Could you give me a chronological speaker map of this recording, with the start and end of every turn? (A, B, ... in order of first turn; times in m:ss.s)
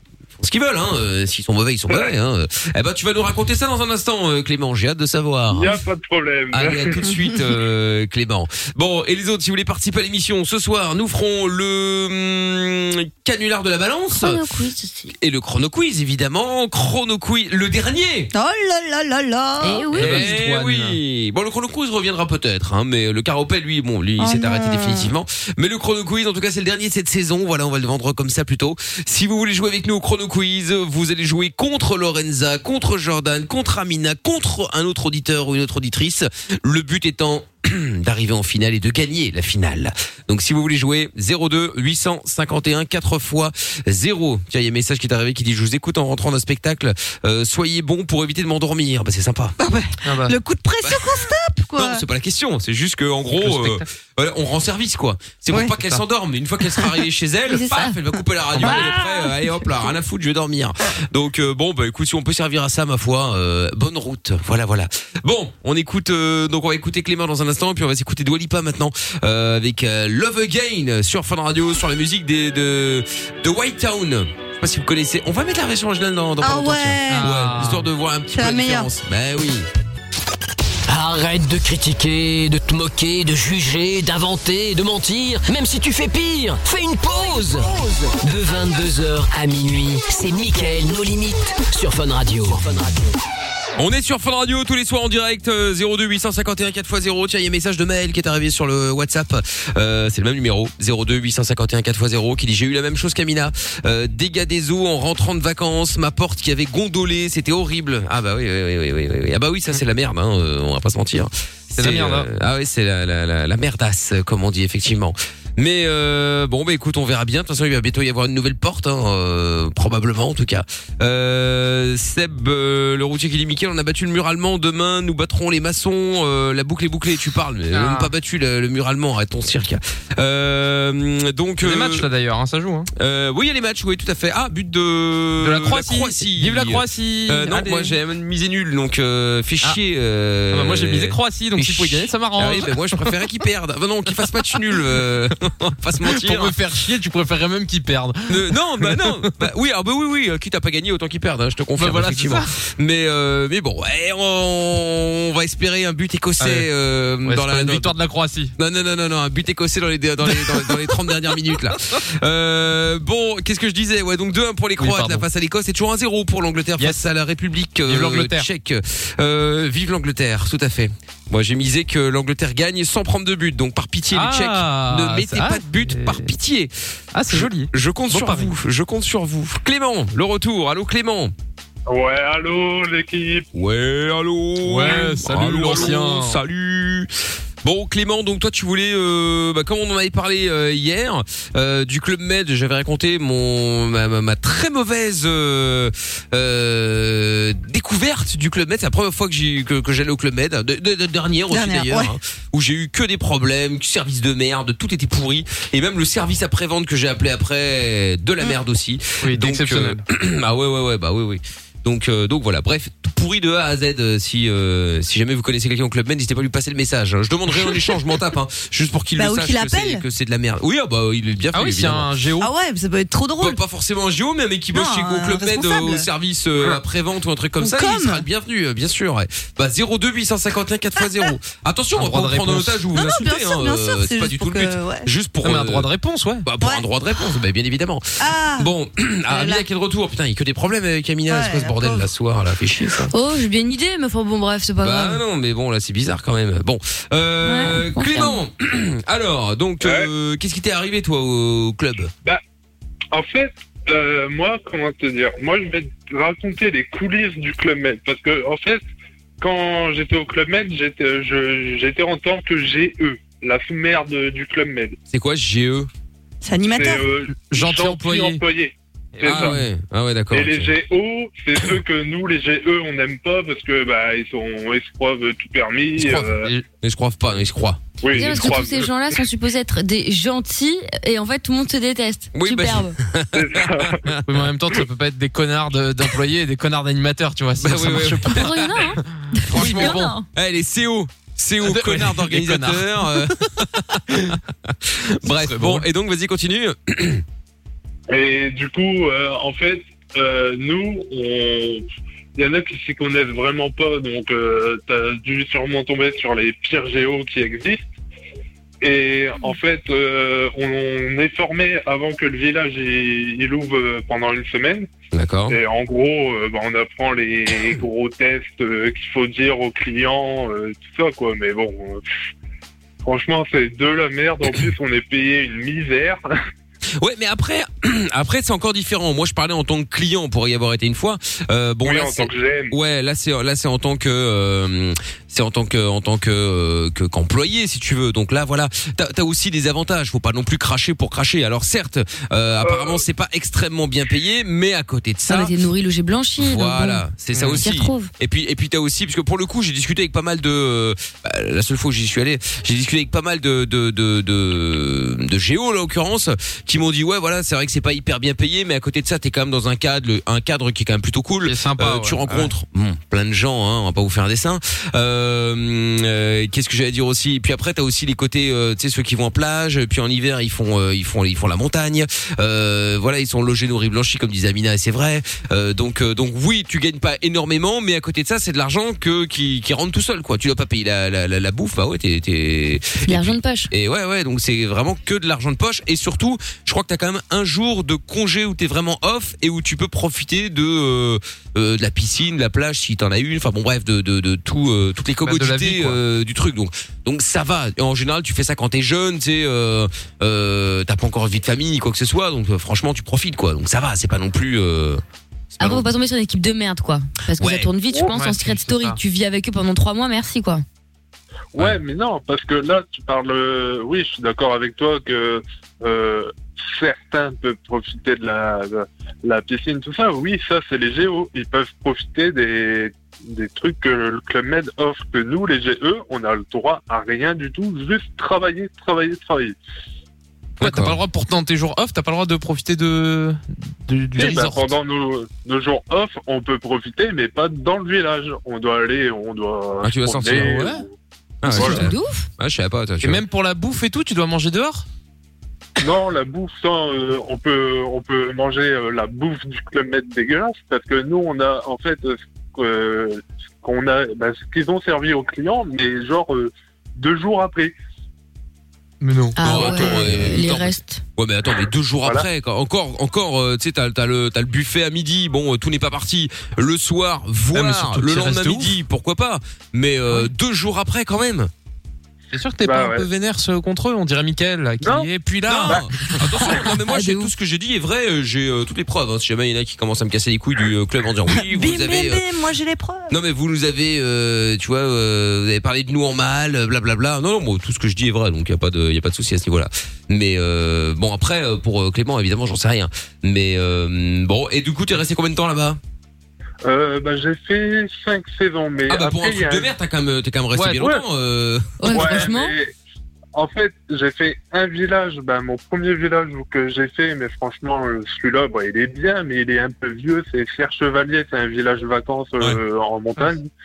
0:00.4-0:05.8 A
0:05.5-0:07.0 B
0:06.5-0:14.4 A
0:14.1-0:15.1 C
0:15.1-0:18.3 A
0:18.3-0:19.9 D
0:19.6-0:20.4 C
0:19.9-0:21.0 E
0:19.9-0:49.5 A
0:24.2-0:25.1 D
0:49.6-0:52.0 D
0:50.0-0:50.4 E
0:50.8-1:19.7 A
0:53.4-0:53.8 E
0:56.7-0:58.9 D
0:58.5-0:58.9 E
0:58.7-0:59.0 C
1:16.4-1:17.4 D
1:17.1-1:17.9 E
1:18.3-1:18.9 D
1:20.9-1:33.1 F
1:33.8-2:12.1 A
1:51.8-1:52.3 E
2:07.7-2:08.1 E
2:11.6-2:12.9 E
2:13.0-2:26.6 A
2:15.4-2:17.9 E
2:20.5-2:23.1 E
2:26.0-2:29.3 E
2:28.3-2:37.9 A
2:31.8-2:32.6 E
2:36.4-2:36.7 E
2:37.2-2:38.5 E
2:38.6-2:56.7 A
2:40.2-2:40.7 E
2:44.8-2:45.2 E
2:47.9-2:48.5 E
2:54.1-2:56.3 E
2:57.1-2:58.5 E
2:57.3-3:01.3 A
3:01.9-3:03.5 B
3:03.5-3:07.1 A
3:04.6-3:06.4 E
3:07.6-3:42.1 A
3:21.5-3:22.1 D
3:29.2-3:30.0 E
3:39.2-3:40.0 D
3:41.5-3:42.5 E
3:42.4-3:43.6 D
3:43.4-3:55.9 A
3:44.7-3:46.1 D
3:47.6-3:48.2 D
3:51.9-3:52.8 E
3:52.9-3:55.1 D
3:55.4-3:56.5 E
3:56.4-4:03.1 A
3:56.5-3:57.4 D
3:58.2-3:58.7 D
3:59.3-3:59.7 D
4:01.3-4:02.1 D
4:03.1-4:05.2 C
4:04.8-4:12.1 A
4:07.5-4:07.8 D
4:07.5-4:08.4 C
4:09.8-4:10.1 B
4:13.1-4:18.8 B
4:19.4-4:25.0 B
4:25.1-4:25.9 A
4:26.4-4:27.1 D
4:26.7-4:29.6 B
4:27.4-4:28.4 E
4:29.1-4:29.6 E
4:29.2-4:30.7 A
4:30.3-4:36.5 B
4:36.0-4:38.7 A
4:38.0-4:38.9 B
4:38.1-4:43.0 C
4:42.3-4:44.2 A
4:43.3-4:44.0 B
4:44.2-4:50.1 E
4:47.6-4:48.5 A
4:48.3-4:50.2 C
4:49.5-4:54.4 A
4:51.6-4:53.3 E
4:55.2-4:57.2 A
4:55.2-4:55.9 E
4:58.1-5:01.8 B
5:02.4-5:07.8 B
5:08.8-5:14.9 B
5:15.1-5:15.6 A
5:15.5-5:22.0 B
5:23.0-5:26.2 B
5:27.0-5:45.5 A
5:31.8-5:32.8 B
5:42.6-5:43.0 B
5:45.3-5:47.0 C
5:46.4-6:45.0 A
5:47.3-5:47.6 E
5:47.5-5:48.1 C
6:01.4-6:02.5 E
6:23.0-6:23.7 C
6:35.2-6:36.0 E
6:45.5-6:45.9 A
6:45.6-6:50.6 C
6:47.4-6:47.7 A
6:48.1-6:49.0 E
6:51.5-7:09.5 B
7:10.6-7:14.7 E
7:10.6-7:11.0 A
7:14.1-7:20.9 B
7:19.8-7:20.6 A
7:20.3-7:20.8 E
7:21.4-7:23.2 A
7:21.4-7:22.3 C
7:21.6-7:21.8 B
7:23.0-7:24.8 E
7:25.8-7:37.7 B
7:39.0-7:39.6 E
7:39.4-7:41.0 C
7:39.4-7:51.5 A
7:39.5-7:40.0 B
7:47.5-7:48.8 E
7:52.3-7:56.6 E
7:52.6-7:53.1 B
7:54.8-7:55.1 B
7:55.4-8:02.3 A
7:56.1-7:57.3 C
8:01.3-8:03.1 D
8:03.1-8:15.8 A
8:16.6-8:19.7 B
8:18.9-8:22.3 A
8:20.5-8:20.9 E
8:21.8-8:22.5 C
8:21.9-8:22.7 B
8:23.3-8:33.5 B